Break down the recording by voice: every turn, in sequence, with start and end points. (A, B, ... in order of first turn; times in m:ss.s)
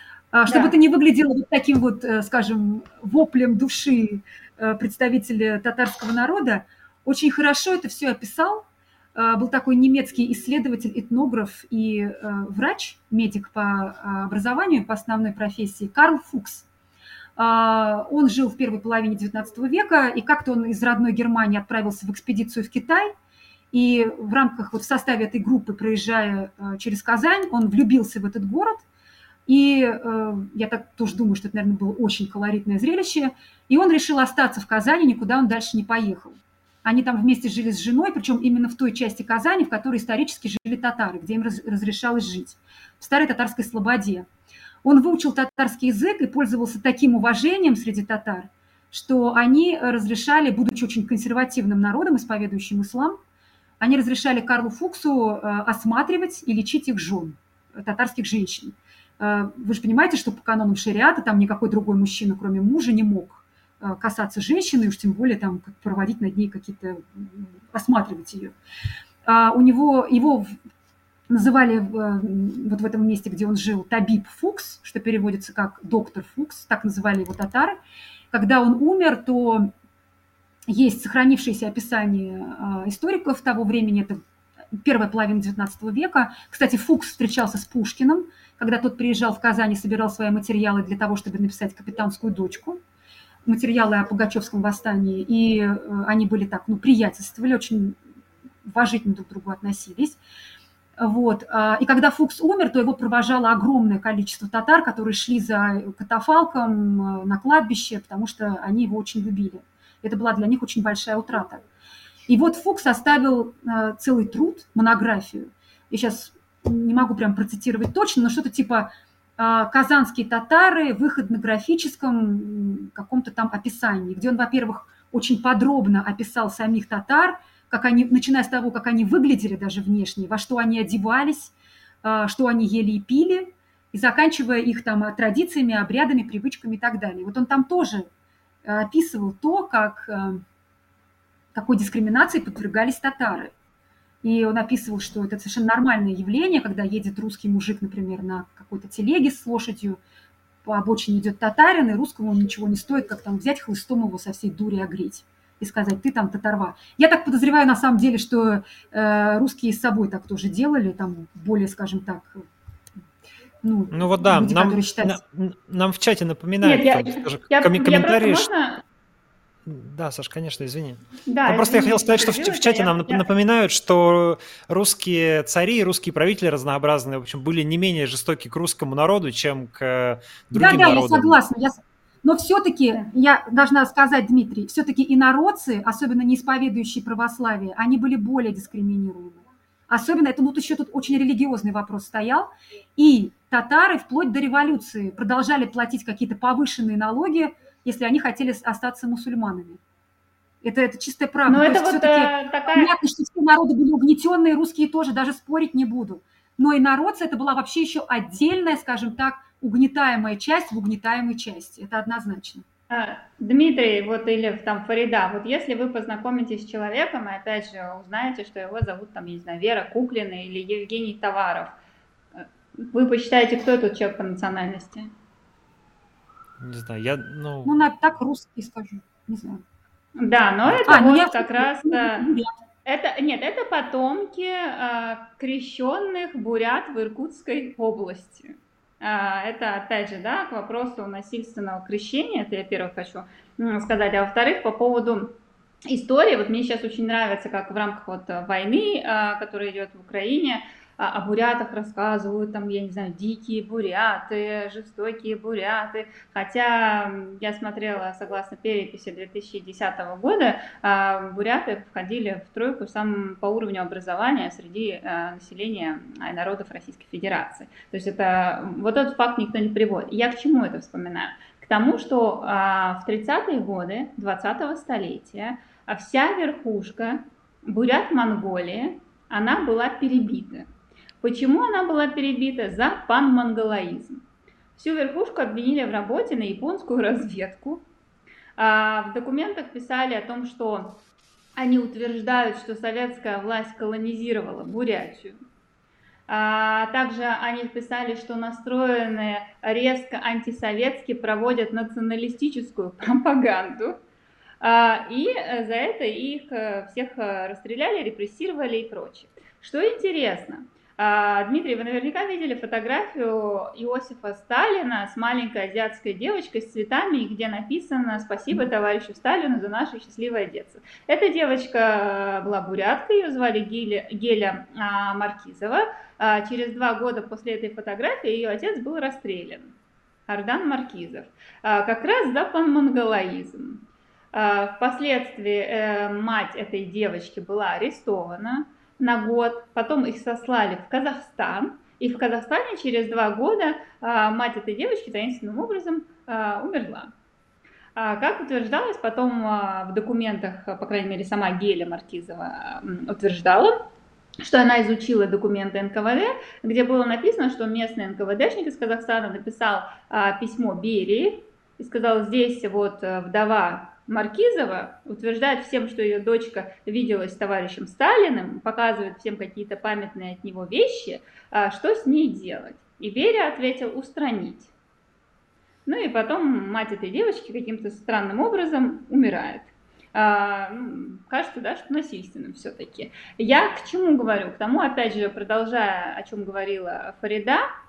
0:00.3-0:16.6 A
0:00.5-0:00.7 B
0:17.4-0:23.1 A
0:23.7-0:28.8 A
0:29.5-0:44.3 A
0:44.8-0:53.2 A
0:53.8-1:08.5 A
1:09.2-1:10.5 A
1:11.3-1:17.8 A
1:18.3-1:19.7 A
1:20.7-1:24.2 A
1:24.8-1:32.8 A
1:33.4-1:38.0 A
1:38.6-1:40.2 A
1:41.0-1:51.6 A
1:52.3-2:18.1 A
2:18.6-2:20.4 A
2:21.5-2:23.5 A
2:24.2-2:30.0 A
2:30.6-2:42.4 A
2:43.6-2:45.2 A
2:43.9-2:48.5 C
2:46.6-2:48.8 B
2:49.6-3:01.4 C
2:51.3-2:53.2 B
3:00.5-3:19.8 A
3:20.6-3:32.6 A
3:21.5-3:22.9 B
3:32.9-3:41.8 B
3:42.3-3:45.1 B
3:46.6-3:47.7 C
3:47.6-3:49.6 A
3:50.2-3:52.3 B
3:50.9-3:52.5 A
3:52.8-4:05.3 B
4:05.9-4:40.7 B
4:41.2-4:44.2 B
4:44.8-4:47.8 B
4:48.6-4:51.0 B
4:51.6-4:55.4 B
4:56.3-5:04.0 B
5:04.6-5:29.7 B
5:30.3-5:47.1 B
5:48.0-5:53.8 B
5:54.4-6:14.7 B
6:15.8-6:27.6 B